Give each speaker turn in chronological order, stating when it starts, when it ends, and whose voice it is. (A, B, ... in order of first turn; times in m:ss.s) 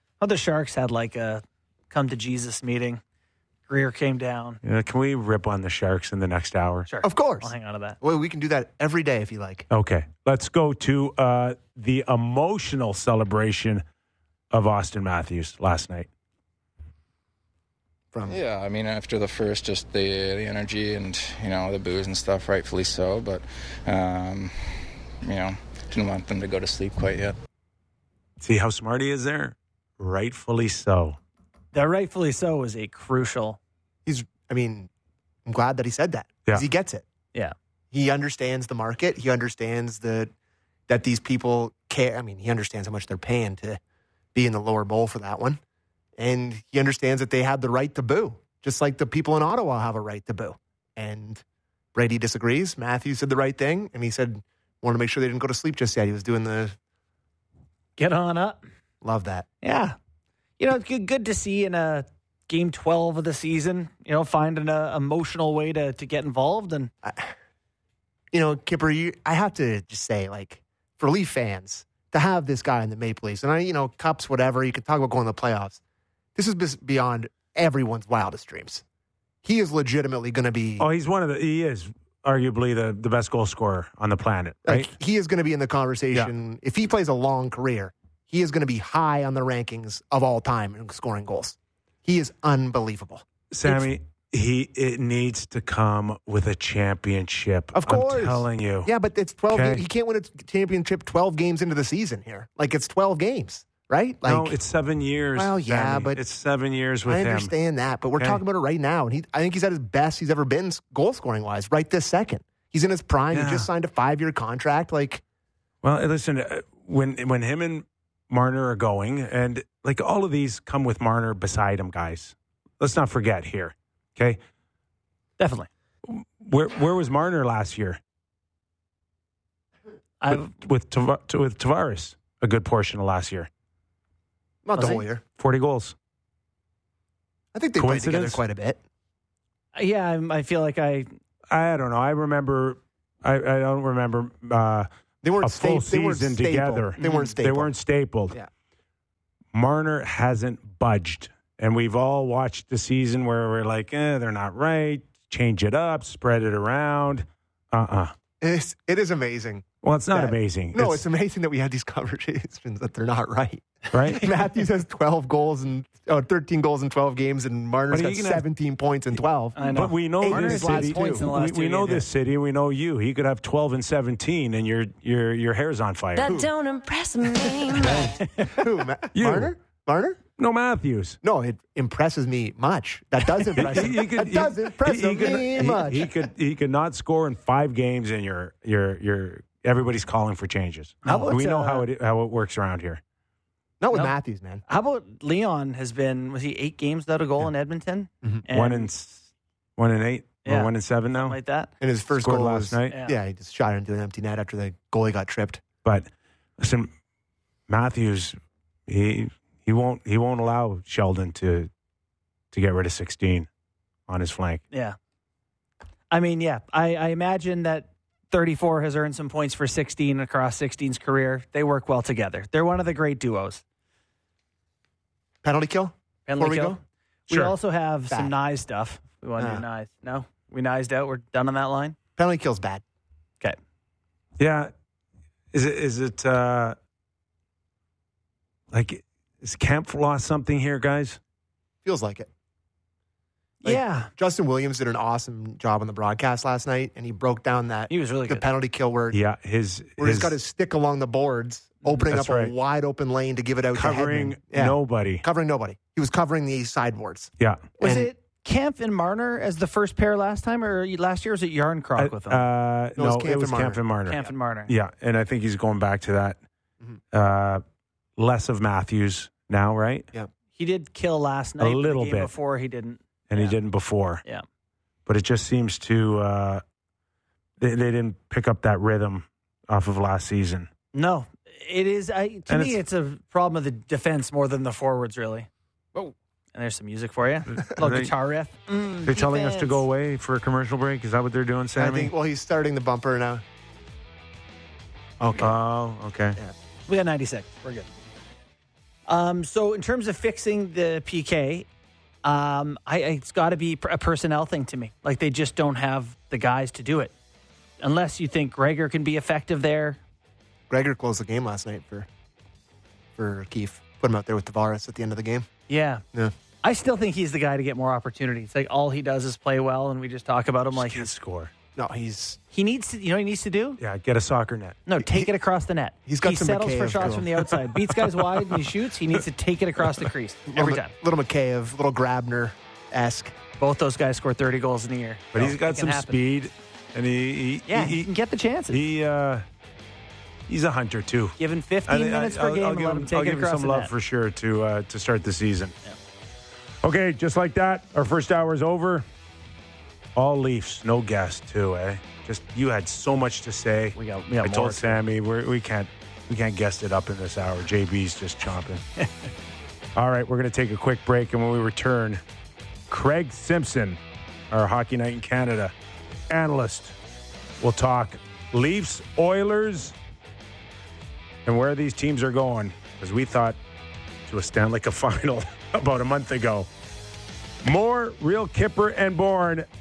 0:00.2-0:03.0 A
0:03.7-0:04.6 A
0:04.6-0:06.9 B
0:06.9-0:08.0 A
0:07.0-0:09.7 C
0:09.7-0:13.8 B
0:14.5-0:16.1 B
0:18.1-0:18.4 C
0:18.3-0:27.4 D
0:28.4-0:31.2 B
0:31.7-0:33.6 A
0:34.1-0:34.9 C
0:35.4-0:37.1 C
0:37.9-0:40.3 C
0:40.9-0:43.8 C
0:44.3-0:45.6 C
0:46.2-0:51.4 C
0:51.9-0:56.8 C
0:58.0-0:58.6 A
0:59.0-0:59.5 C
0:59.6-1:00.0 A
1:00.6-1:06.9 A
1:07.0-1:07.3 C
1:08.3-1:15.8 C
1:16.4-1:18.8 C
1:19.4-1:20.9 C
1:20.8-1:24.9 B
1:24.7-1:33.9 C
1:33.5-1:38.9 B
1:37.8-1:44.6 C
1:39.5-1:39.8 B
1:44.2-1:47.5 B
1:45.4-1:46.2 C
1:47.0-1:55.2 C
1:53.3-1:53.7 B
1:55.8-2:04.4 B
2:05.4-2:05.7 A
2:06.0-2:08.0 B
2:10.2-2:10.5 A
2:10.3-2:13.5 B
2:14.6-2:15.2 C
2:14.8-2:15.0 A
2:15.4-2:16.0 B
2:17.5-2:18.8 C
2:17.8-2:18.4 B
2:19.7-2:21.1 A
2:21.5-2:24.9 B
2:25.2-2:27.7 C
2:25.4-2:28.4 B
2:29.5-2:38.1 B
2:38.4-2:49.6 C
2:39.8-2:41.0 B
2:43.9-2:44.3 B
2:47.9-2:48.4 B
2:49.6-2:52.1 A
2:49.7-2:56.3 B
2:50.2-2:51.3 C
2:56.2-2:58.2 E
2:56.2-2:56.5 C
2:58.5-3:00.2 C
2:59.2-2:59.5 B
3:00.4-3:01.2 B
3:01.2-3:06.2 C
3:03.6-3:13.0 B
3:05.2-3:05.9 A
3:11.0-3:11.9 A
3:13.8-3:14.6 C
3:14.7-3:18.9 A
3:18.5-3:21.4 B
3:20.4-3:20.7 A
3:21.2-3:21.7 A
3:21.8-3:25.6 C
3:22.2-3:22.9 B
3:22.9-3:23.2 A
3:26.6-3:26.9 B
3:27.7-3:28.4 B
3:28.9-3:31.7 B
3:32.5-3:33.5 B
3:34.1-3:34.6 B
3:34.7-3:35.0 A
3:36.1-3:43.6 A
3:45.4-3:46.8 C
3:46.3-3:52.0 A
3:49.4-3:49.6 C
3:52.2-3:52.8 C
3:54.4-3:54.7 B
3:55.5-3:56.8 B
3:58.7-4:01.2 B
4:01.8-4:02.3 C
4:03.6-4:04.1 A
4:03.6-4:09.2 C
4:07.9-4:08.4 A
4:09.1-4:10.4 B
4:10.0-4:18.1 C
4:12.1-4:12.5 B
4:13.7-4:15.2 B
4:17.8-4:22.5 A
4:22.0-4:26.4 B
4:23.0-4:23.8 C
4:24.1-4:24.7 A
4:27.1-4:27.6 B
4:28.2-4:30.1 B
4:30.6-4:33.6 A
4:31.6-4:32.3 B
4:33.3-4:34.2 B
4:35.1-4:36.6 B
4:37.6-4:40.7 B
4:40.9-4:49.8 A
4:42.5-4:42.8 B
4:47.6-4:48.1 B
4:49.1-4:52.1 B
4:51.8-4:53.4 C
4:55.2-4:56.4 B
4:56.9-4:57.9 A
4:59.1-5:01.7 A
5:02.2-5:07.1 A
5:07.8-5:10.0 A
5:10.7-5:12.1 C
5:13.2-5:15.5 C
5:15.7-5:16.0 A
5:16.6-5:21.1 A
5:20.7-5:21.5 B
5:21.8-5:22.4 C
5:22.5-5:23.8 A
5:23.8-5:24.8 B
5:24.9-5:30.9 A
5:25.0-5:25.3 C
5:26.1-5:27.6 C
5:30.5-5:33.4 C
5:33.6-5:36.2 A
5:35.3-5:38.1 B
5:37.7-5:38.8 A
5:38.7-5:39.4 B
5:40.5-5:45.8 B
5:41.4-5:43.9 A
5:46.8-5:49.1 B
5:50.2-5:58.8 B
5:54.0-5:55.0 A
6:00.0-6:02.2 B
6:02.9-6:04.0 B
6:04.5-6:05.7 B
6:06.3-6:06.9 B
6:07.6-6:10.0 B
6:11.5-6:13.6 B
6:14.3-6:16.7 B
6:17.6-6:19.7 B